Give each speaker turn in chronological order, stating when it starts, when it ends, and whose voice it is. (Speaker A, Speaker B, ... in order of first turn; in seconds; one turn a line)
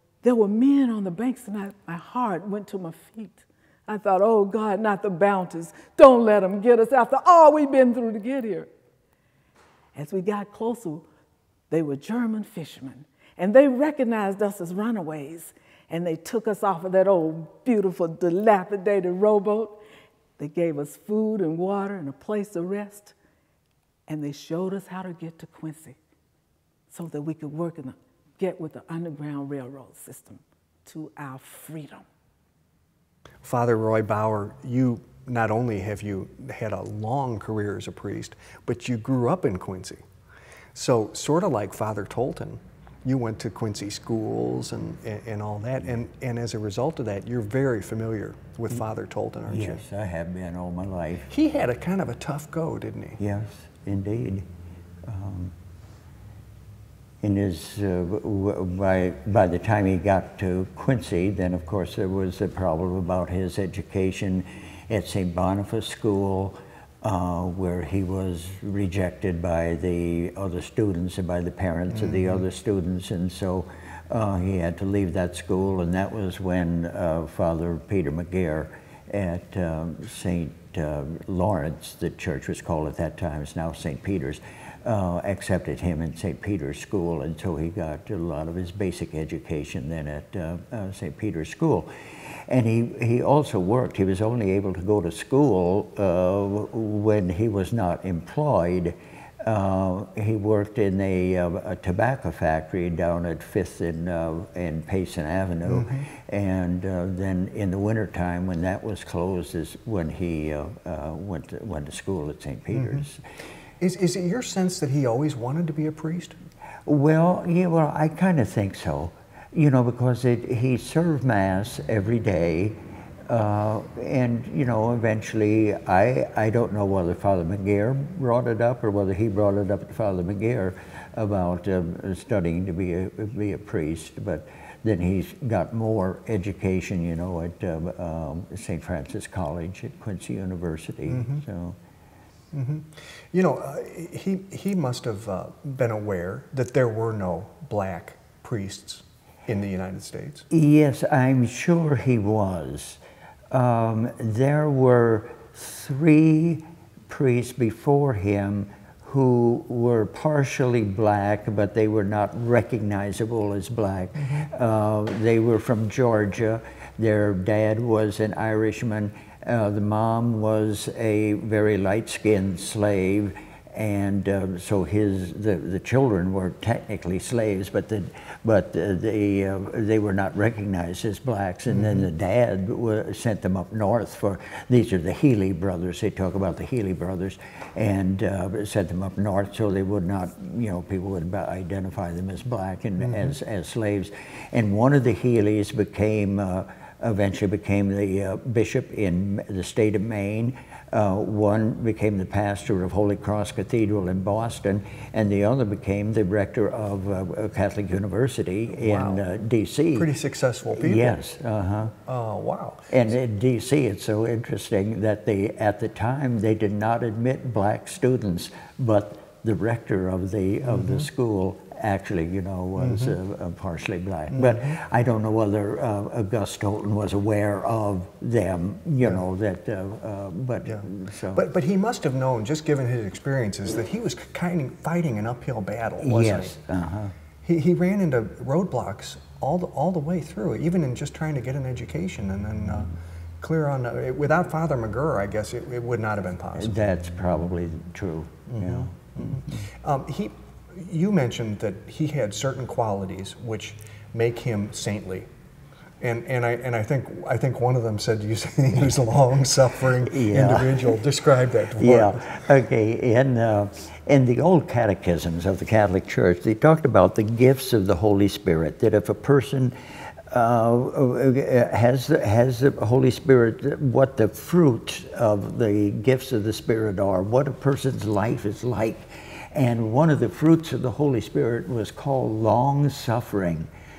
Speaker A: 0.2-8.7
Speaker A: 9.9-11.1
Speaker A: 11.7-19.8
Speaker A: 20.4-23.1
Speaker A: 24.1-26.0
Speaker A: 26.9-32.0
Speaker B: 33.4-40.0
Speaker B: 40.8-49.8
Speaker C: 49.5-51.3
Speaker B: 51.3-53.2
Speaker C: 53.2-54.5
Speaker C: 55.0-55.5
Speaker C: 57.2-113.2
Speaker B: 71.9-72.4
Speaker B: 105.7-106.1
Speaker B: 112.7-113.0
Speaker B: 113.8-116.4
Speaker C: 116.8-141.8
Speaker B: 141.1-141.4
Speaker B: 142.5-150.4
Speaker C: 150.5-210.1
Speaker B: 164.2-164.5
Speaker B: 181.7-182.1
Speaker B: 193.0-193.3
Speaker B: 208.8-209.2
Speaker B: 209.9-211.2
Speaker C: 210.7-211.9
Speaker B: 212.1-213.1
Speaker C: 212.9-231.5
Speaker B: 220.7-221.1
Speaker B: 222.8-223.2
Speaker B: 224.3-224.8
Speaker B: 230.7-236.5
Speaker C: 236.0-237.1
Speaker B: 237.4-246.8
Speaker C: 246.5-249.7
Speaker B: 248.5-255.3
Speaker B: 256.0-262.4
Speaker C: 260.0-261.0
Speaker C: 261.8-269.8
Speaker C: 270.3-283.7